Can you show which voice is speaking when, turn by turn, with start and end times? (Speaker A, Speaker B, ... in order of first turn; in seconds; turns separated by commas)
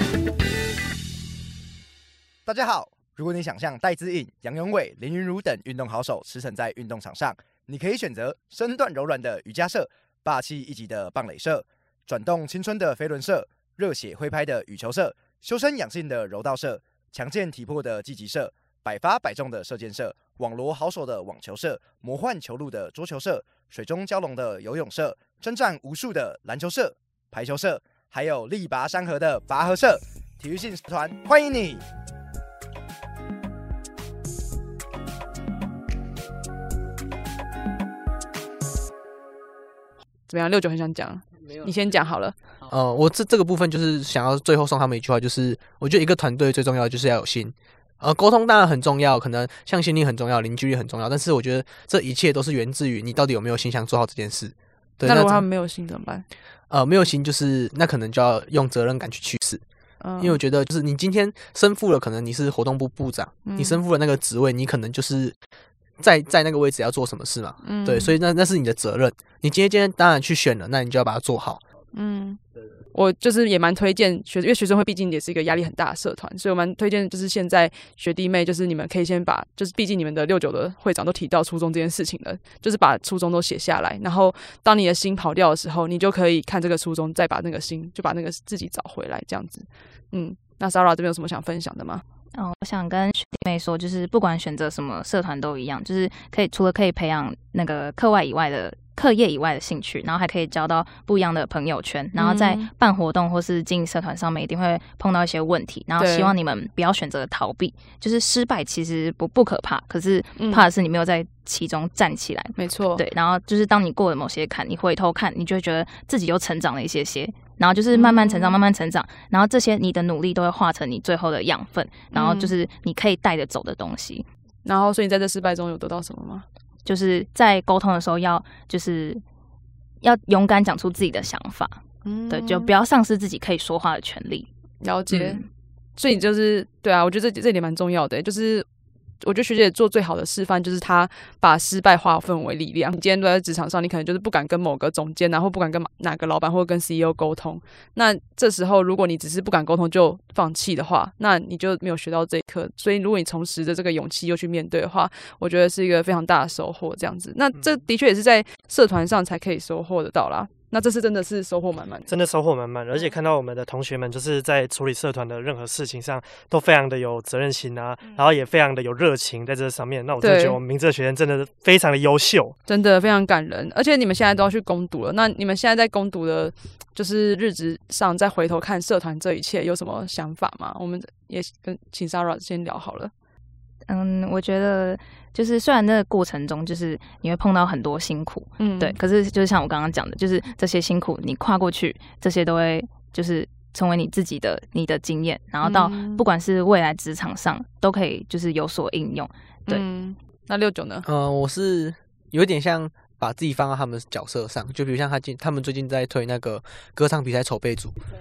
Speaker A: 2.5-31.9, Speaker B: 40.3-42.4, Speaker C: 42.7-55.5, Speaker B: 55.0-56.2, Speaker C: 56.7-59.6, Speaker B: 60.0-60.4, Speaker C: 60.2-65.4, Speaker B: 63.5-63.8, Speaker C: 66.0-71.6, Speaker B: 67.6-68.1, Speaker B: 71.9-72.4, Speaker B: 72.9-92.0, Speaker D: 92.3-124.3, Speaker B: 102.2-102.7, Speaker B: 106.0-106.3, Speaker B: 110.4-110.7, Speaker B: 112.6-113.0, Speaker B: 117.9-118.6, Speaker B: 122.1-122.5, Speaker B: 124.7-126.5, Speaker D: 126.9-129.2, Speaker D: 130.0-134.5, Speaker B: 132.1-132.7, Speaker B: 134.8-135.4, Speaker D: 135.1-135.5, Speaker B: 136.0-138.7, Speaker B: 139.2-162.1, Speaker E: 162.1-172.6, Speaker B: 170.2-170.6, Speaker B: 172.7-183.1, Speaker D: 183.9-199.8, Speaker B: 188.6-189.0, Speaker B: 195.6-196.2, Speaker B: 199.7-201.1, Speaker C: 201.1-208.0